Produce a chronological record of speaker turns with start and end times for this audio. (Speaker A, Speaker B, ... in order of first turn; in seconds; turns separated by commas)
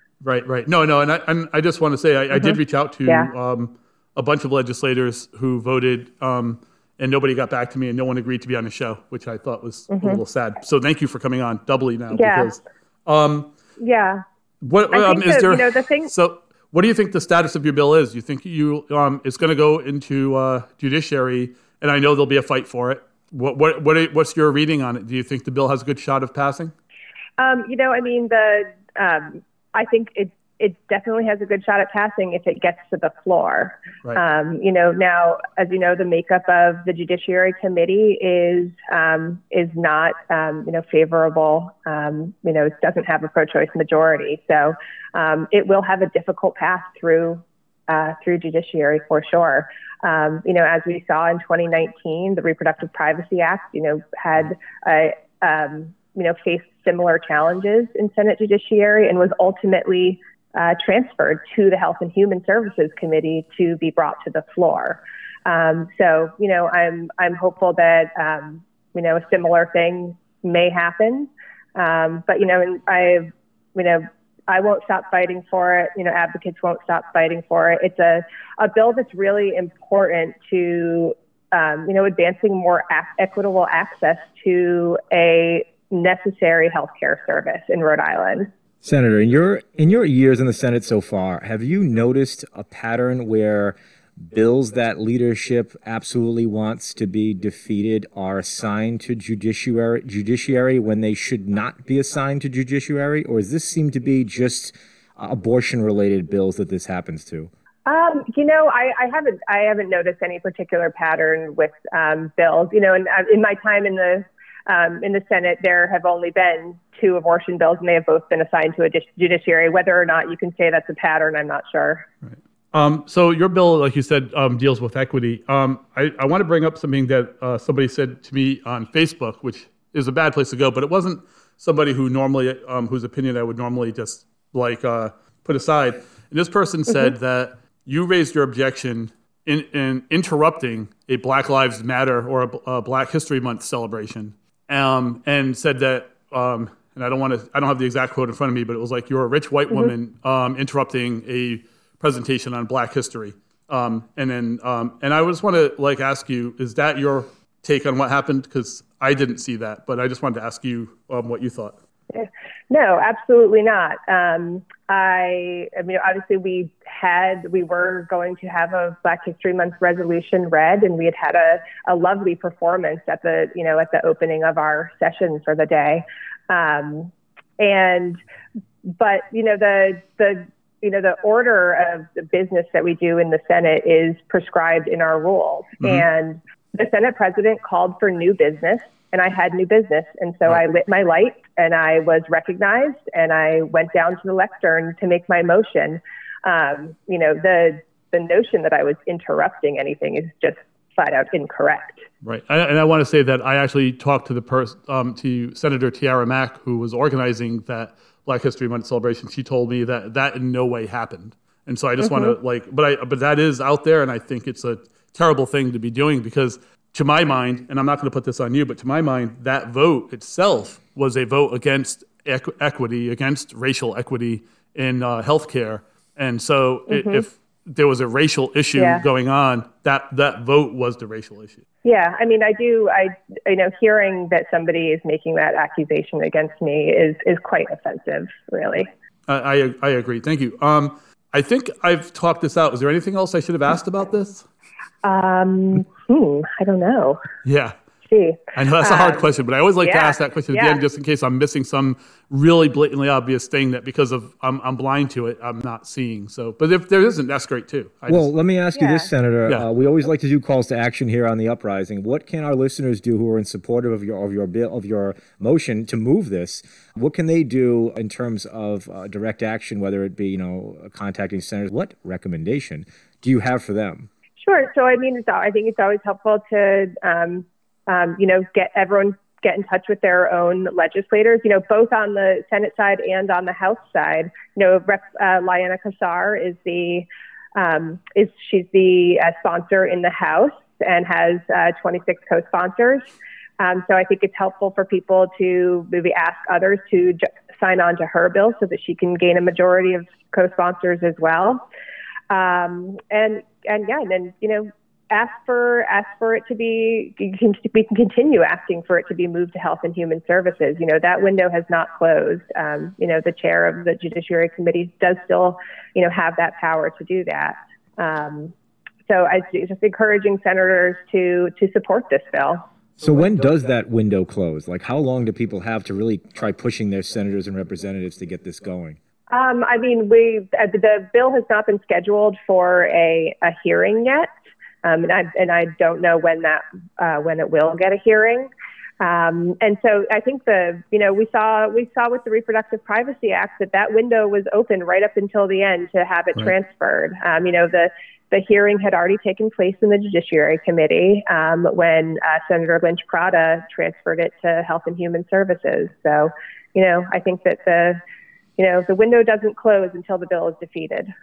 Speaker A: 0.2-13.5, Speaker B: 2.3-3.3, Speaker B: 9.9-10.2, Speaker B: 12.1-12.6, Speaker B: 13.8-14.2, Speaker A: 14.6-26.7, Speaker B: 14.9-16.1, Speaker B: 27.4-88.5, Speaker C: 88.8-107.5, Speaker B: 107.9-122.1, Speaker A: 122.2-161.8, Speaker B: 162.1-178.2, Speaker B: 178.9-202.1, Speaker A: 202.2-231.6, Speaker B: 212.0-212.4, Speaker B: 226.9-227.2, Speaker B: 228.8-229.0, Speaker B: 231.8-238.9, Speaker A: 239.3-244.4, Speaker B: 245.0-247.2, Speaker A: 247.4-247.8, Speaker B: 248.1-249.3, Speaker A: 248.6-258.3, Speaker B: 249.8-250.8, Speaker C: 258.1-274.1, Speaker B: 258.8-259.1, Speaker B: 274.4-293.1, Speaker B: 293.6-301.6, Speaker B: 302.3-318.5, Speaker B: 319.1-322.6, Speaker C: 323.0-329.0, Speaker B: 329.3-334.3, Speaker B: 334.8-358.0, Speaker B: 358.6-361.1